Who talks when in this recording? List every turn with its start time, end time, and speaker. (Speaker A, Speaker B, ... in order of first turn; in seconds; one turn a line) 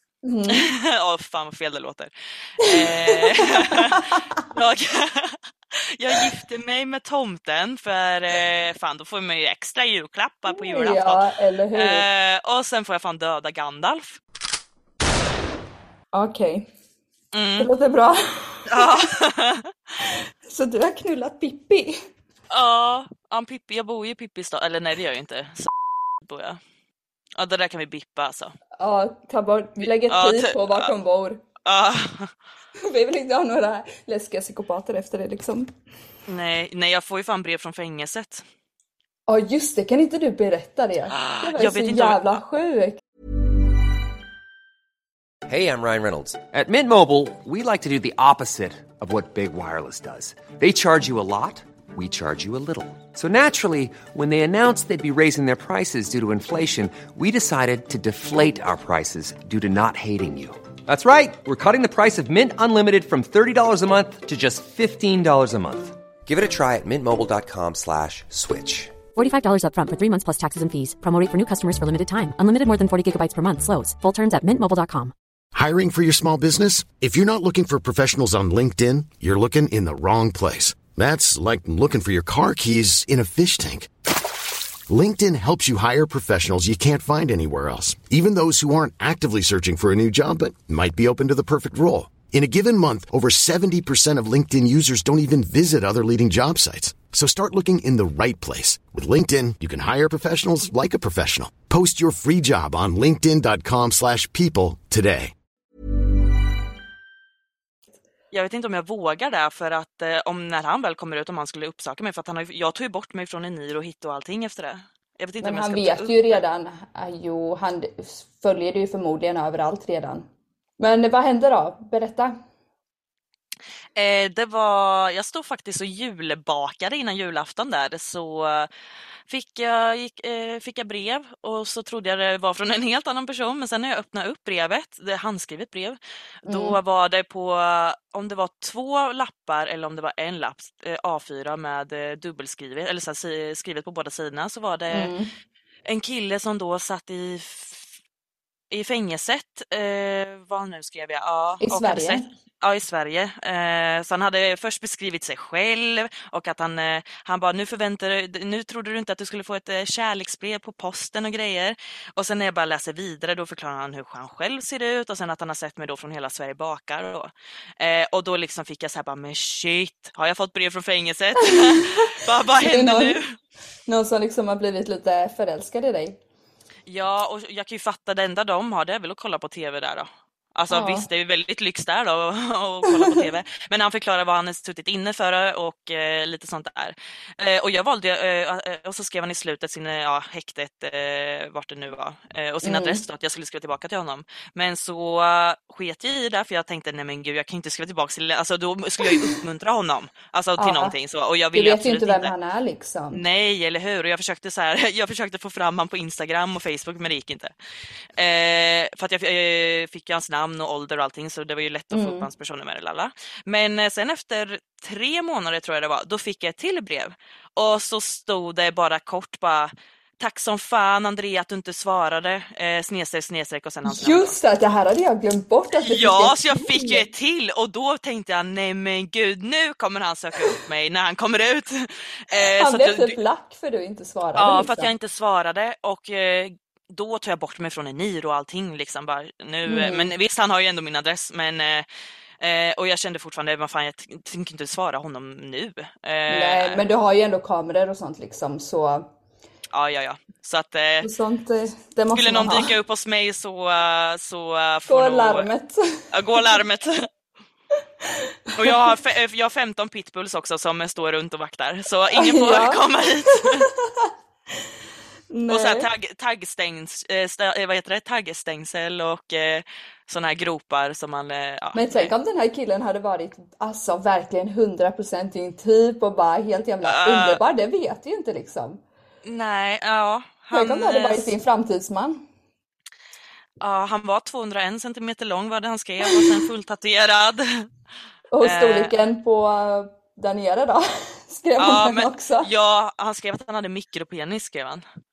Speaker A: 0.2-0.7
Speaker B: 0.5-11.2
Speaker A: 2.6-4.4
Speaker A: 10.5-12.0
Speaker B: 11.8-14.2
Speaker A: 16.1-16.7
Speaker B: 17.3-17.7
Speaker A: 17.6-19.0
Speaker B: 18.7-19.7
Speaker A: 20.4-22.0
Speaker B: 22.5-25.7
Speaker B: 26.2-26.6
Speaker B: 27.4-28.5
Speaker A: 28.8-31.4
Speaker B: 30.1-30.9
Speaker B: 31.6-32.3
Speaker A: 32.8-35.7
Speaker B: 36.3-38.5
Speaker A: 39.3-43.0
Speaker B: 41.1-42.4
Speaker C: 45.5-69.0
Speaker D: 69.1-75.1
Speaker E: 75.5-83.9
Speaker E: 84.9-105.3
Speaker B: 108.3-116.4
Speaker A: 115.4-120.3
Speaker A: 120.8-122.3
Speaker B: 124.0-128.7
Speaker B: 129.3-136.0
Speaker A: 136.5-136.8
Speaker B: 136.5-145.1
Speaker A: 144.9-145.3
Speaker B: 145.8-147.9
Speaker B: 148.7-173.3
Speaker A: 151.6-152.2
Speaker A: 171.8-173.2
Speaker A: 173.9-176.2
Speaker B: 176.9-202.3
Speaker A: 180.7-181.1
Speaker A: 182.9-183.2
Speaker A: 192.6-193.0
Speaker A: 200.6-200.9
Speaker A: 201.5-203.2
Speaker B: 203.1-207.5
Speaker B: 208.2-224.3
Speaker A: 211.9-212.2
Speaker A: 223.8-227.0
Speaker B: 225.8-233.2
Speaker A: 232.3-234.9
Speaker B: 234.3-241.8
Speaker A: 239.7-240.1
Speaker B: 242.4-246.8
Speaker A: 246.3-249.1
Speaker B: 249.7-251.1
Speaker A: 251.0-252.7
Speaker B: 252.1-255.5
Speaker A: 254.9-256.5
Speaker B: 256.1-257.1
Speaker B: 258.6-263.7
Speaker A: 262.1-264.1
Speaker A: 265.3-265.9
Speaker B: 265.5-272.1
Speaker A: 271.8-278.8
Speaker B: 276.9-277.4
Speaker B: 279.2-281.3
Speaker A: 280.5-282.2
Speaker B: 283.6-287.7
Speaker A: 288.3-292.5
Speaker B: 288.4-288.9
Speaker B: 291.6-294.8